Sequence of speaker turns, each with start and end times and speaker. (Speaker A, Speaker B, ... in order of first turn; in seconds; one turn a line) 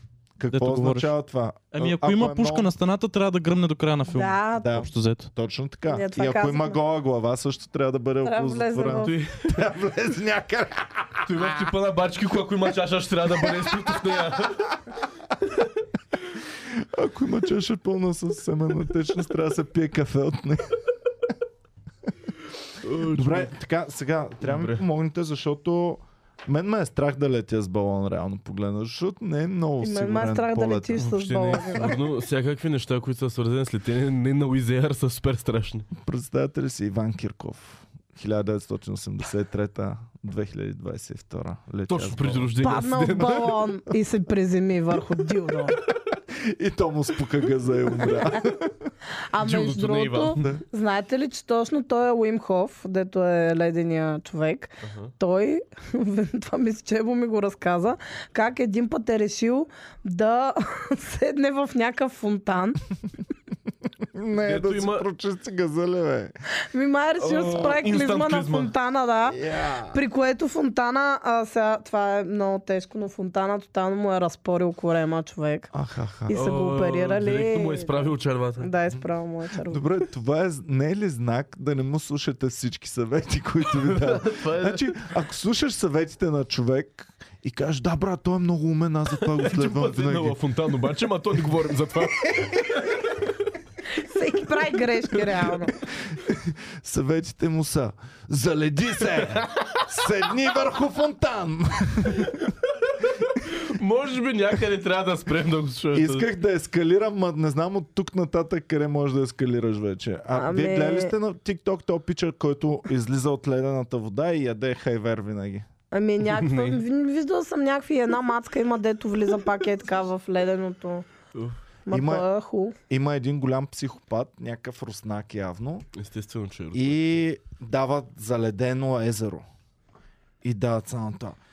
Speaker A: 0.4-2.7
Speaker B: 0.5-1.1
Speaker B: 1.7-5.3
Speaker C: 4.1-4.7
Speaker A: 4.6-11.5
Speaker C: 5.9-6.8
Speaker C: 8.2-9.2
Speaker D: 8.9-9.5
Speaker D: 11.2-14.7
Speaker A: 13.8-14.4
Speaker A: 16.7-20.8
Speaker D: 22.8-23.5
Speaker A: 23.1-31.1
Speaker D: 24.4-24.8
Speaker C: 29.8-32.0
Speaker D: 31.0-35.9
Speaker A: 35.9-42.5
Speaker D: 41.9-43.6
Speaker C: 42.6-45.8
Speaker A: 46.4-48.9
Speaker C: 49.3-62.8
Speaker D: 49.4-50.4
Speaker A: 50.4-50.6
Speaker D: 54.8-55.1
Speaker A: 64.1-66.3
Speaker D: 64.4-65.0
Speaker C: 66.7-69.4
Speaker D: 67.2-68.7
Speaker A: 69.3-70.0
Speaker C: 69.9-75.7
Speaker A: 75.7-76.4
Speaker C: 76.3-79.8
Speaker D: 76.3-78.7
Speaker A: 79.7-90.4
Speaker D: 83.7-85.0
Speaker D: 89.3-92.7
Speaker C: 94.0-95.7
Speaker D: 95.1-95.5
Speaker A: 96.0-102.5
Speaker D: 103.2-106.2
Speaker A: 105.9-115.7
Speaker C: 110.3-111.1
Speaker C: 115.9-121.0
Speaker D: 116.3-116.8
Speaker C: 121.8-122.8
Speaker A: 121.9-122.2
Speaker A: 122.9-125.8
Speaker D: 125.9-127.1
Speaker A: 126.7-129.5
Speaker A: 130.4-131.3